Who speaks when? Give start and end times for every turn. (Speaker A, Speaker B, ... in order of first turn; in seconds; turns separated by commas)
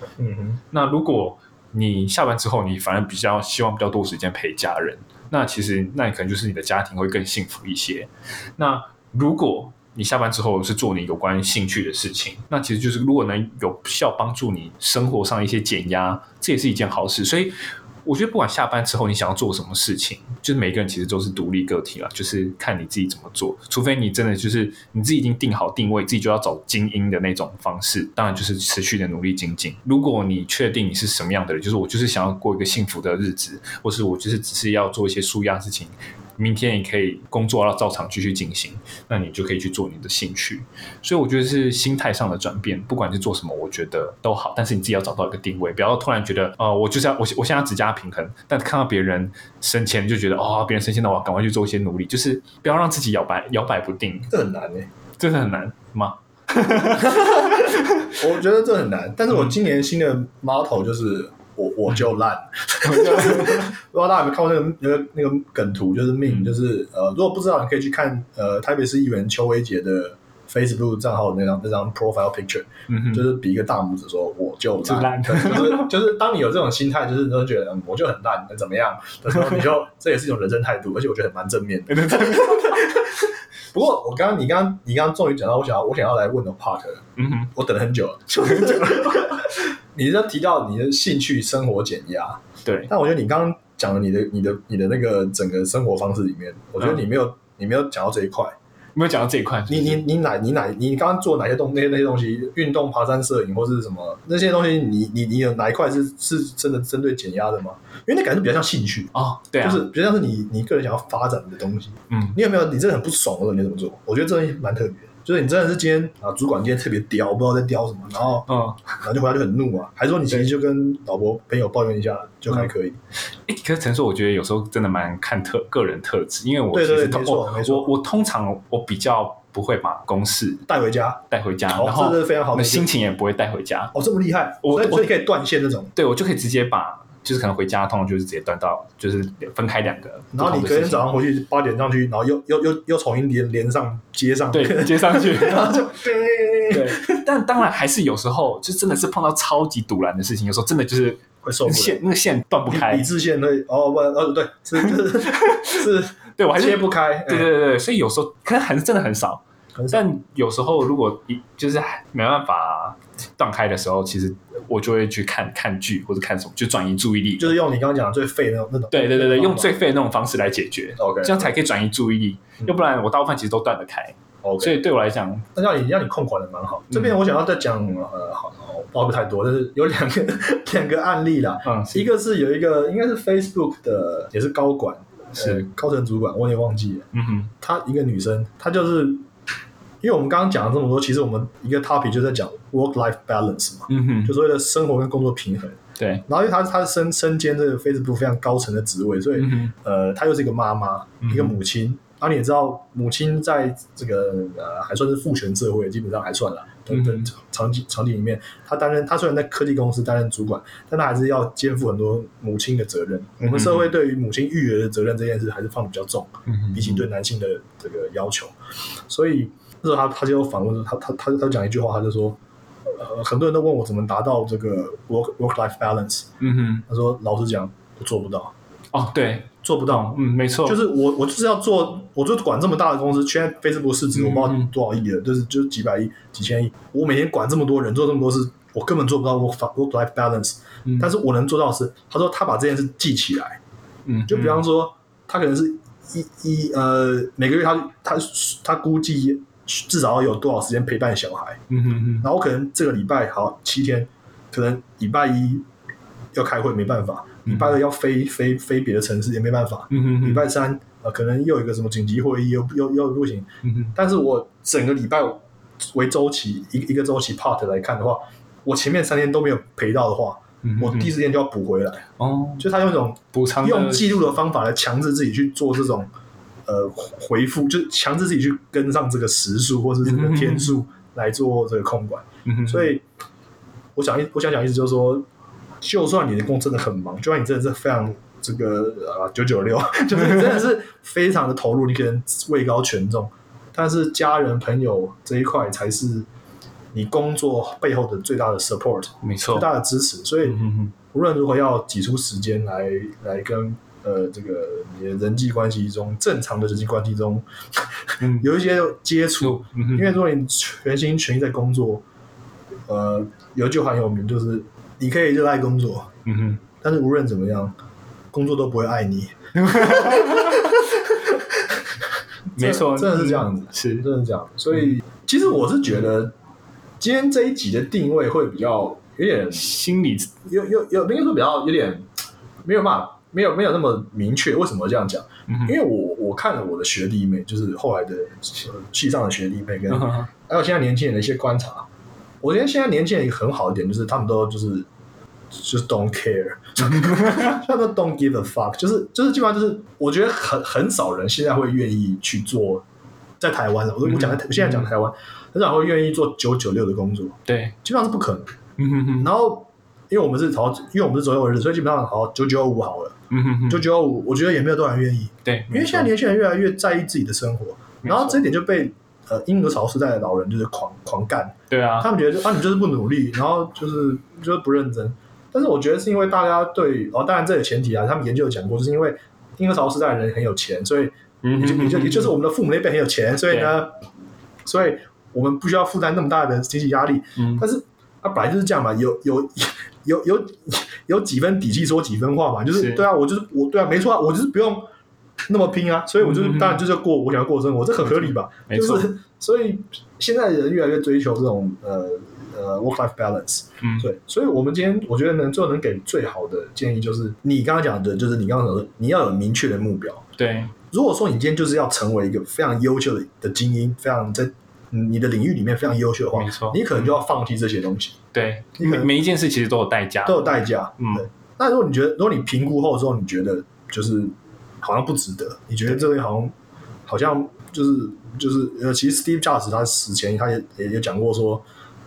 Speaker A: 0.2-0.6, Speaker B: 0.7-54.3, Speaker A: 54.3-54.9, Speaker B: 55.2-58.1, Speaker A: 57.1-98.5, Speaker B: 62.8-63.7, Speaker B: 72.9-73.2, Speaker B: 74.8-75.9, Speaker B: 81.9-82.9, Speaker B: 87.2-87.5, Speaker B: 88.5-89.0, Speaker B: 98.9-100.0, Speaker A: 99.7-118.5, Speaker B: 109.1-109.9, Speaker B: 118.5-118.8, Speaker A: 119.0-123.0, Speaker B: 123.5-130.6, Speaker A: 126.7-127.9, Speaker A: 130.7-132.9, Speaker B: 131.3-133.9, Speaker A: 133.9-135.9, Speaker B: 134.6-135.1, Speaker B: 135.9-141.1, Speaker A: 140.3-147.2, Speaker B: 144.5-145.9, Speaker B: 146.7-153.1, Speaker A: 151.4-152.0, Speaker A: 152.7-157.5, Speaker B: 156.4-167.6, Speaker A: 159.8-160.0, Speaker A: 167.4-169.7, Speaker B: 168.9-175.5, Speaker A: 171.0-171.5, Speaker A: 174.4-174.8, Speaker A: 175.5-187.1, Speaker B: 181.6-182.0, Speaker B: 187.1-187.5, Speaker A: 187.6-189.2, Speaker A: 190.0-218.5, Speaker B: 193.9-194.3, Speaker B: 196.0-196.2, Speaker B: 199.4-199.7, Speaker B: 201.3-201.5, Speaker B: 213.5-213.8, Speaker A: 219.1-226.3, Speaker B: 226.4-226.8, Speaker A: 226.9-228.5, Speaker B: 228.9-230.8, Speaker A: 229.6-243.6, Speaker B: 234.2-234.7, Speaker B: 244.1-244.6, Speaker A: 244.2-251.6, Speaker B: 251.7-252.2, Speaker A: 252.2-255.6, Speaker A: 256.3-265.4, Speaker B: 259.9-260.4, Speaker A: 265.9-272.1, Speaker B: 270.6-271.1, Speaker B: 272.2-272.6, Speaker A: 272.6-276.1, Speaker B: 273.3-274.1, Speaker A: 276.7-283.0, Speaker B: 280.1-280.7, Speaker A: 283.9-285.2, Speaker A: 285.8-296.3, Speaker A: 296.9-312.0, Speaker B: 299.2-299.7, Speaker B: 300.5-300.9, Speaker B: 309.4-310.1, Speaker A: 312.9-316.1, Speaker B: 316.2-316.6, Speaker A: 316.8-317.7, Speaker A: 318.3-321.8, Speaker B: 319.7-320.6, Speaker A: 322.5-326.3, Speaker B: 322.6-324.0, Speaker A: 327.0-329.7, Speaker B: 329.5-330.3, Speaker A: 330.4-332.1, Speaker A: 332.6-341.9, Speaker A: 342.4-344.9, Speaker A: 345.5-352.8, Speaker B: 347.0-347.4, Speaker A: 353.4-358.5, Speaker B: 354.1-354.9, Speaker B: 357.5-357.7, Speaker B: 358.8-359.3, Speaker A: 359.1-363.1, Speaker B: 363.3-363.8, Speaker A: 363.7-383.9, Speaker B: 365.4-366.1, Speaker B: 368.0-368.4, Speaker B: 371.7-372.1, Speaker B: 381.4-382.3, Speaker A: 384.6-394.9, Speaker B: 392.7-393.0, Speaker A: 395.5-410.2, Speaker B: 398.7-399.1, Speaker B: 410.4-410.7, Speaker A: 410.9-418.2, Speaker B: 416.3-417.1, Speaker B: 418.3-421.2, Speaker A: 418.8-419.1, Speaker A: 420.2-426.5, Speaker A: 427.1-431.6